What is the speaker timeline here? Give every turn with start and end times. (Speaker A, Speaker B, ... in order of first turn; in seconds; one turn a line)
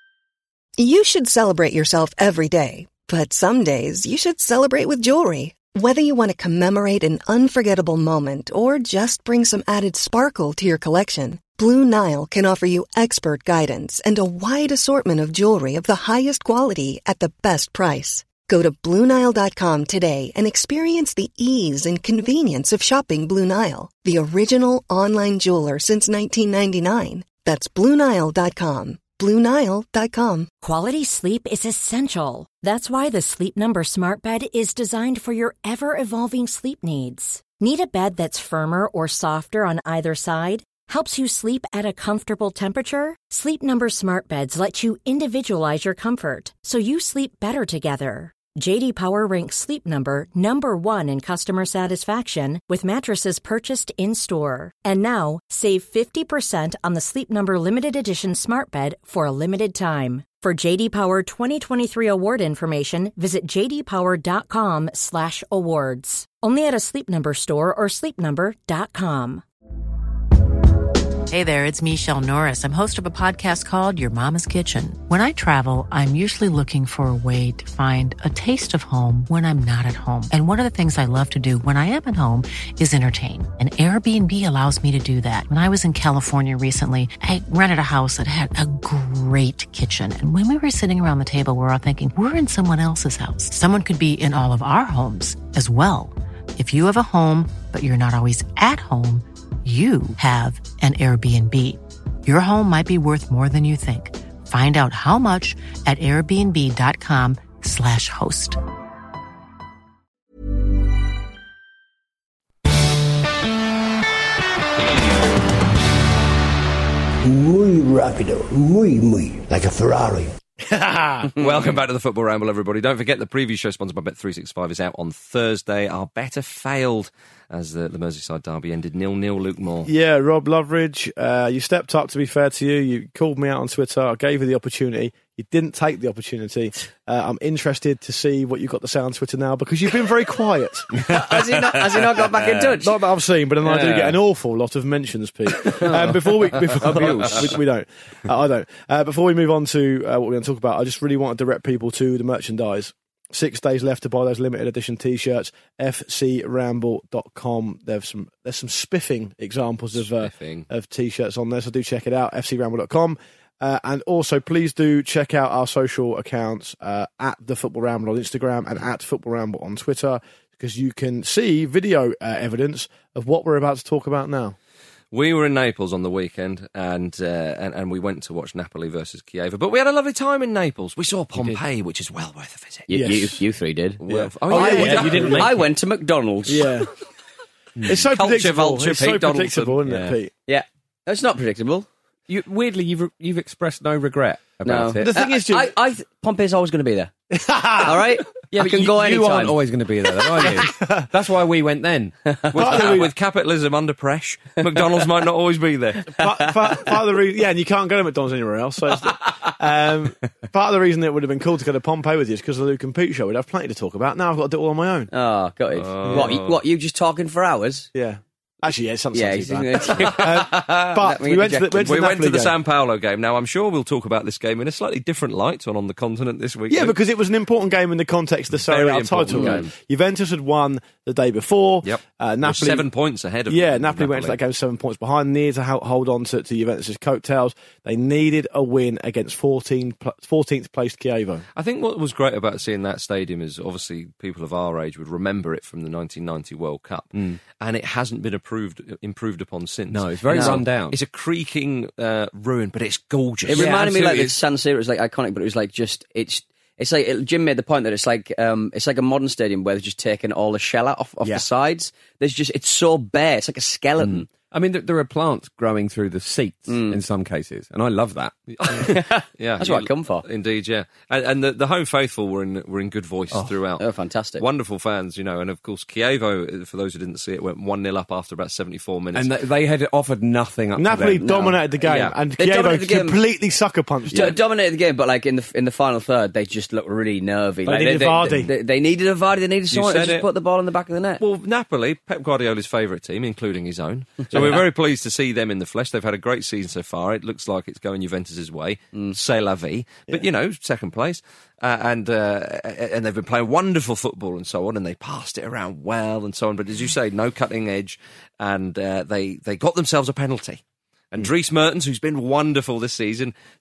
Speaker A: 0.8-30.5
Speaker B: 30.6-69.4
Speaker C: 71.3-108.6
Speaker D: 117.2-120.3
Speaker E: 120.7-121.3
Speaker F: 121.4-129.9
Speaker E: 129.8-141.1
Speaker G: 141.1-143.0
Speaker E: 142.7-174.6
Speaker G: 143.7-144.2
Speaker H: 146.8-147.5
Speaker F: 160.0-160.7
Speaker F: 175.1-182.9
Speaker H: 181.4-181.6
Speaker G: 182.9-186.7
Speaker E: 182.9-183.4
Speaker F: 184.1-185.5
Speaker H: 184.5-185.7
Speaker E: 184.5-185.5
Speaker E: 186.5-186.9
Speaker H: 187.8-188.0
Speaker E: 187.8-190.3
Speaker F: 188.1-189.8
Speaker G: 190.5-191.9
Speaker H: 192.3-195.1
Speaker G: 194.6-197.1
Speaker E: 195.0-195.7
Speaker E: 197.3-198.1
Speaker G: 197.8-199.6
Speaker H: 198.5-202.2
Speaker E: 200.8-201.0
Speaker G: 202.3-202.8
Speaker F: 202.5-206.2
Speaker E: 202.6-203.1
Speaker E: 206.2-215.1
Speaker G: 215.1-217.9
Speaker F: 215.7-216.6
Speaker E: 216.1-216.4
Speaker E: 217.9-222.6
Speaker G: 219.1-222.1
Speaker F: 220.1-220.9
Speaker F: 221.8-227.0
Speaker E: 226.7-232.9
Speaker F: 228.6-229.7
Speaker G: 229.3-229.7
Speaker F: 231.8-234.4
Speaker E: 233.5-241.4
Speaker F: 241.6-254.1
Speaker H: 249.9-251.0
Speaker G: 250.3-250.6
Speaker G: 253.5-264.3
Speaker H: 253.5-254.3
Speaker H: 264.0-268.3
Speaker G: 266.7-267.0
Speaker F: 268.5-273.9
Speaker G: 268.8-270.2
Speaker G: 273.8-274.4
Speaker F: 274.4-279.3
Speaker H: 279.1-281.4
Speaker E: 280.8-284.4
Speaker G: 281.2-283.2
Speaker G: 284.1-291.2
Speaker E: 287.6-288.5
Speaker F: 289.7-290.3
Speaker F: 291.2-310.6
Speaker G: 294.3-294.6
Speaker F: 311.1-313.3